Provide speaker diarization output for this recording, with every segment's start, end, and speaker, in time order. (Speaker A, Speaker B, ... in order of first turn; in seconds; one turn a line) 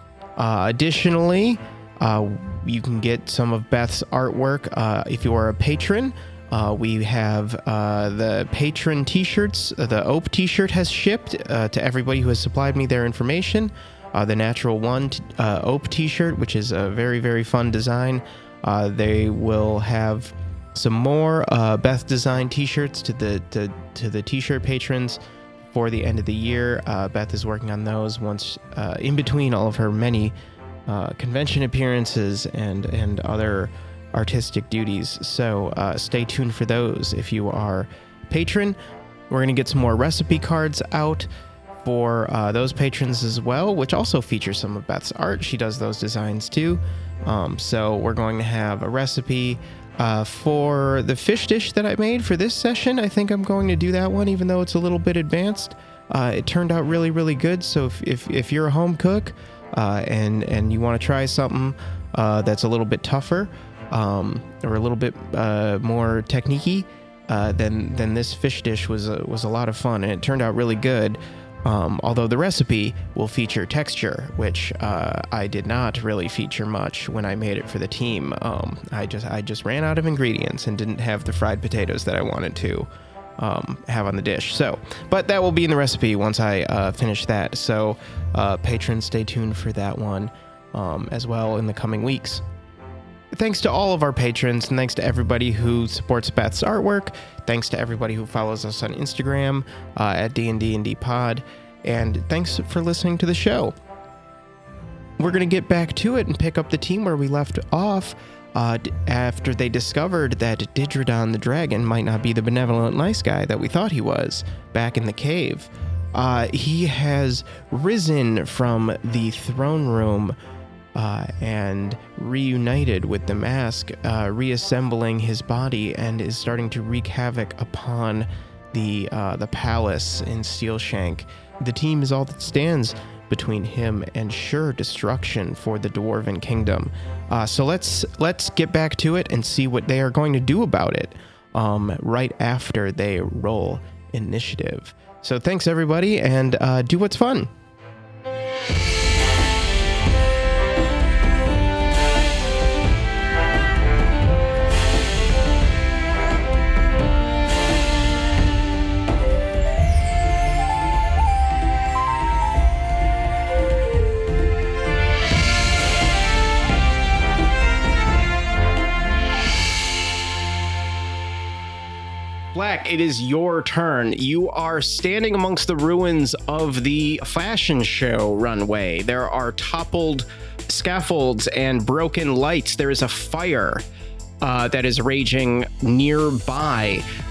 Speaker A: 0.4-25.2
Speaker A: 25.7-30.3
Speaker A: 30.9-38.8
Speaker A: 39.3-41.3
Speaker A: 41.8-82.9
Speaker A: 83.4-92.4
Speaker A: 93.3-103.7
Speaker A: 105.2-120.3
Speaker A: 120.9-147.5
Speaker A: 172.5-183.8
Speaker A: 184.4-187.0